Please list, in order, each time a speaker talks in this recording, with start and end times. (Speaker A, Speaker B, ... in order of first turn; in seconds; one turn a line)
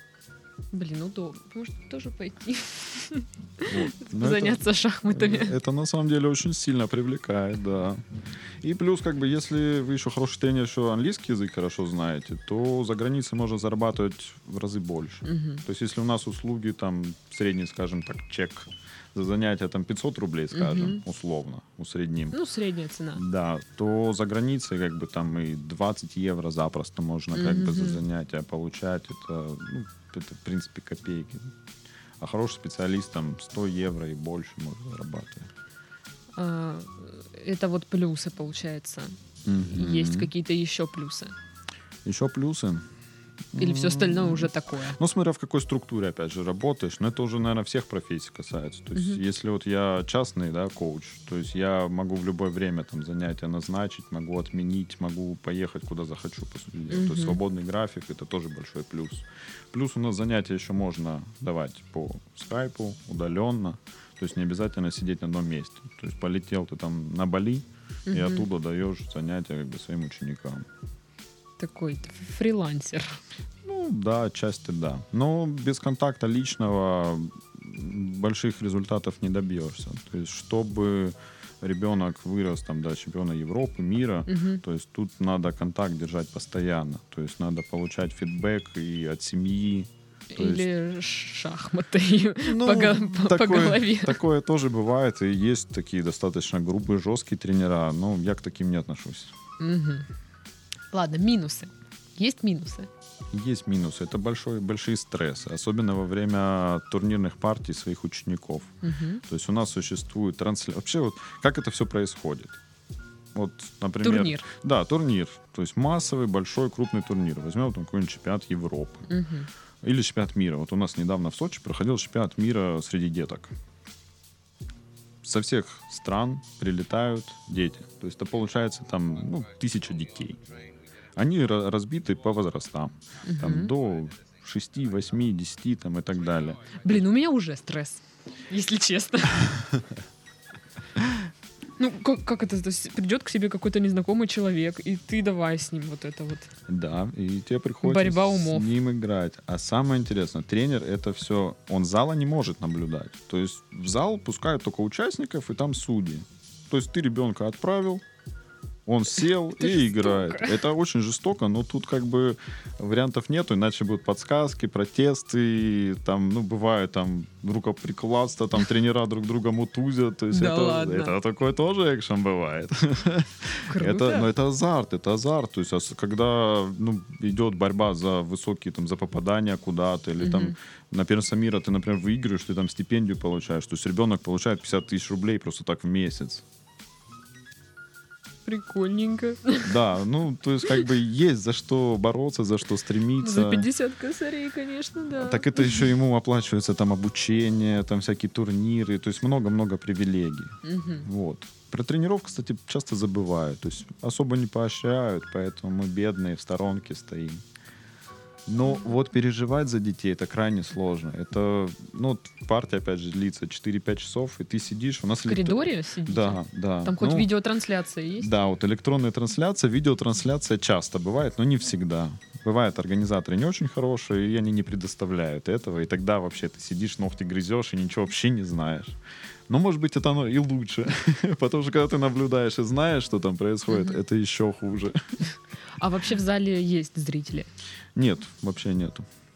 Speaker A: 0.7-5.6
Speaker B: 3.6-8.0
Speaker B: 8.6-22.4
Speaker A: 15.2-15.6
Speaker A: 20.5-21.0
Speaker A: 22.3-23.2
Speaker B: 23.1-31.5
Speaker A: 27.3-28.0
Speaker B: 32.2-35.5
Speaker A: 36.3-41.3
Speaker B: 39.4-40.3
Speaker B: 42.0-42.9
Speaker B: 43.5-70.6
Speaker A: 43.5-45.0
Speaker A: 48.9-49.2
Speaker A: 56.9-57.4
Speaker A: 68.1-68.5
Speaker A: 71.6-73.2
Speaker B: 73.6-90.7
Speaker A: 84.3-84.6
Speaker A: 90.3-94.2
Speaker B: 92.4-99.3
Speaker A: 99.6-100.1
Speaker A: 100.9-102.9
Speaker B: 103.3-112.6
Speaker A: 108.8-109.2
Speaker B: 113.3-119.1
Speaker A: 114.0-114.5
Speaker A: 119.1-119.5
Speaker B: 119.8-123.5
Speaker B: 125.2-130.4
Speaker B: 131.1-136.6
Speaker A: 133.2-133.7
Speaker A: 136.8-139.6
Speaker A: 141.8-146.5
Speaker B: 146.7-158.0
Speaker A: 147.8-148.7
Speaker B: 158.8-186.4
Speaker A: 159.6-160.6
Speaker A: 170.3-171.1
Speaker A: 173.7-174.3
Speaker A: 180.2-180.5
Speaker A: 188.4-189.8
Speaker B: 189.6-193.7
Speaker A: 193.2-195.9
Speaker B: 195.2-207.4
Speaker A: 200.6-201.1
Speaker B: 208.5-217.3
Speaker A: 215.2-218.3
Speaker B: 218.2-235.0
Speaker A: 233.7-234.0
Speaker A: 235.8-237.5
Speaker B: 237.9-239.1